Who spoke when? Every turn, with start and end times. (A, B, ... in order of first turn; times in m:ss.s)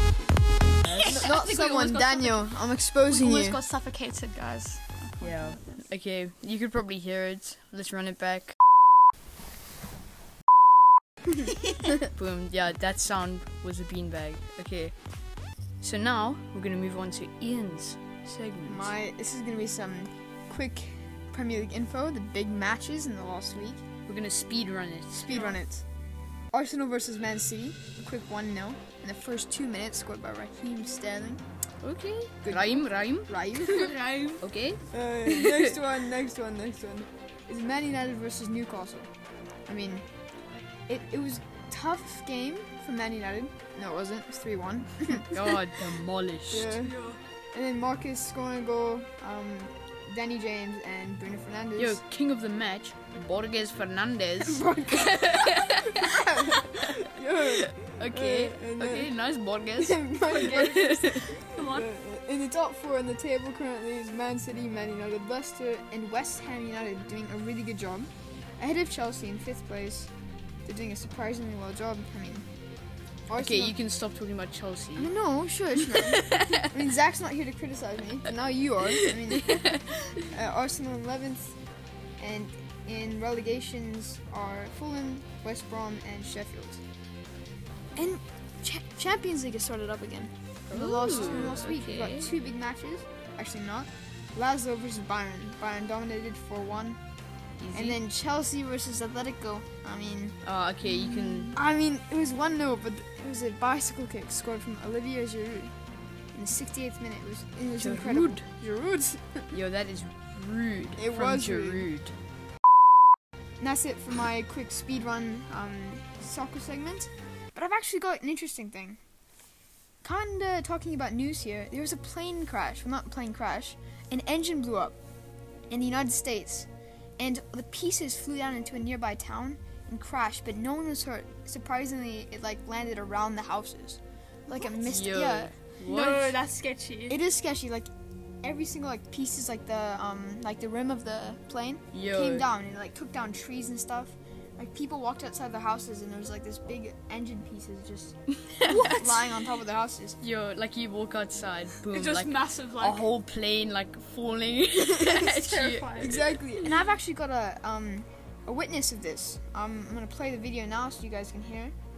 0:00.8-0:01.1 A
0:01.0-0:03.6 B
0:01.0-0:05.8 C
0:05.2-0:08.5 A
0:12.1-0:14.9 A
0:15.8-0:18.9 A
0:18.6-0:23.8 B
0:24.1-0:25.5 A
0:25.2-0:25.8 B
0:25.3-0:25.6 C
0:26.5-0:31.4 B
0:31.8-0:33.3 A
0:32.4-0:34.0 B
0:33.6-0:34.4 C
0:34.4-0:35.8 A
0:34.9-0:39.1 B
0:39.7-0:40.0 B
0:40.9-0:45.5 B
0:45.3-0:46.7 A
0:46.5-0:47.0 B
0:46.8-0:47.2 C
0:47.5-0:52.0 B
0:51.8-0:56.1 A
0:54.4-0:59.1 B
0:57.4-1:01.4 A
0:59.8-1:10.1 B
1:01.5-1:01.9 C
1:10.6-1:12.4 B
1:13.3-1:13.8 B
1:13.4-1:15.1 A
1:15.0-1:21.5 B
1:15.9-1:16.7 A
1:18.9-1:20.2 A
1:22.2-1:26.8 B
1:28.0-1:37.0 B
1:30.7-1:32.3 A
1:37.6-1:38.0 A
1:37.7-1:40.4 B
1:40.4-1:41.6 A
1:41.5-1:45.7 B
1:46.3-1:49.5 B
1:47.8-1:48.4 A
1:49.5-1:52.1 A
1:51.0-1:51.9 B
1:53.6-1:59.0 B
2:00.0-2:05.0 B
2:05.7-2:06.7 B
2:07.2-2:15.5 B
2:14.8-2:16.4 A
2:15.8-2:17.2 C
2:17.1-2:17.9 B
2:18.4-2:30.2 B
2:21.9-2:22.4 A
2:28.5-2:28.9 A
2:28.8-2:29.2 C
2:30.2-2:36.3 A
2:31.9-2:33.0 C
2:35.1-2:36.3 C
2:36.0-2:41.7 B